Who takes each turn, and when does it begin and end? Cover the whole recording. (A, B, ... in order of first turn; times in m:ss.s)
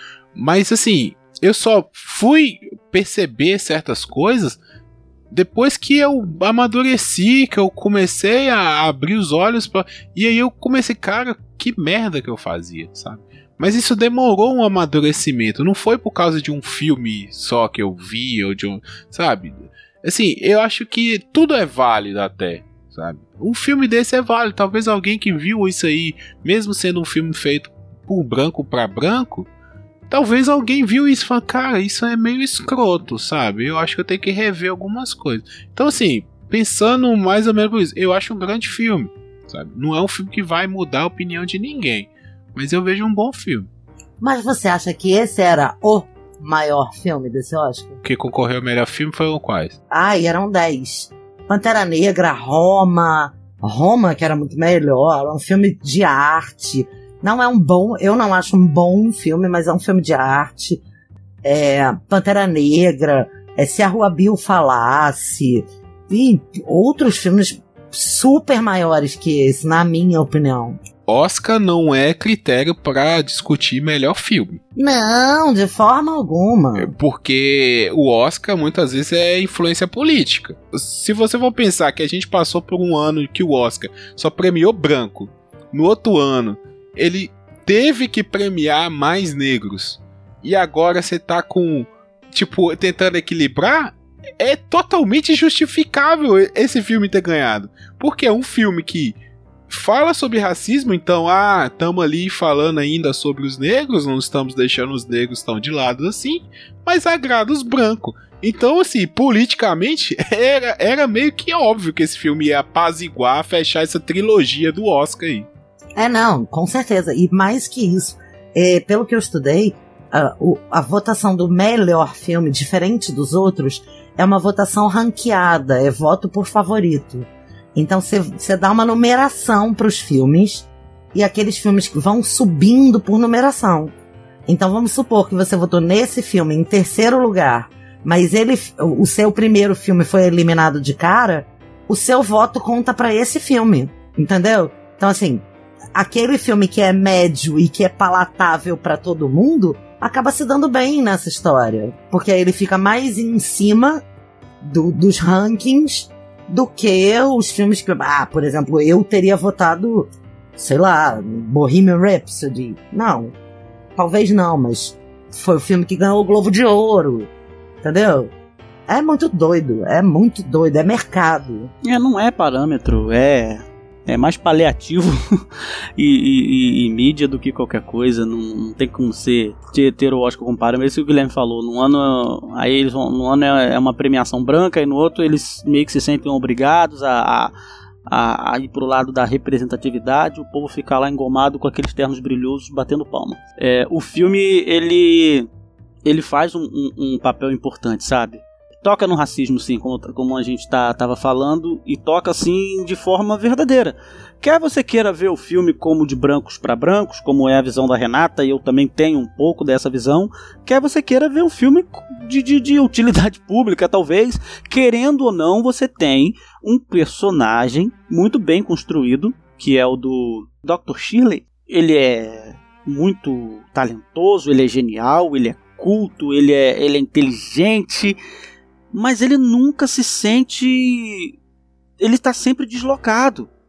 0:00.3-0:04.6 A
0:05.3-0:29.5 A
0:30.1-0:43.7 A
0:44.2-0:48.0 B
0:48.0-0:49.8 A
0:49.9-1:00.8 B
1:01.4-1:10.8 B
1:11.0-1:14.6 A
1:14.8-1:16.9 B
1:16.8-1:39.2 A
1:39.7-1:55.5 A
1:56.0-2:13.9 B
2:14.4-2:34.0 B
2:34.6-2:43.3 B
2:44.0-2:47.3 B
2:47.8-2:48.3 B
2:48.9-2:51.7 B
2:51.8-2:55.2 C
2:56.0-3:07.5 C
3:08.1-3:15.5 C
3:16.0-3:48.2 C
3:48.9-3:51.3 C
3:52.0-3:53.5 C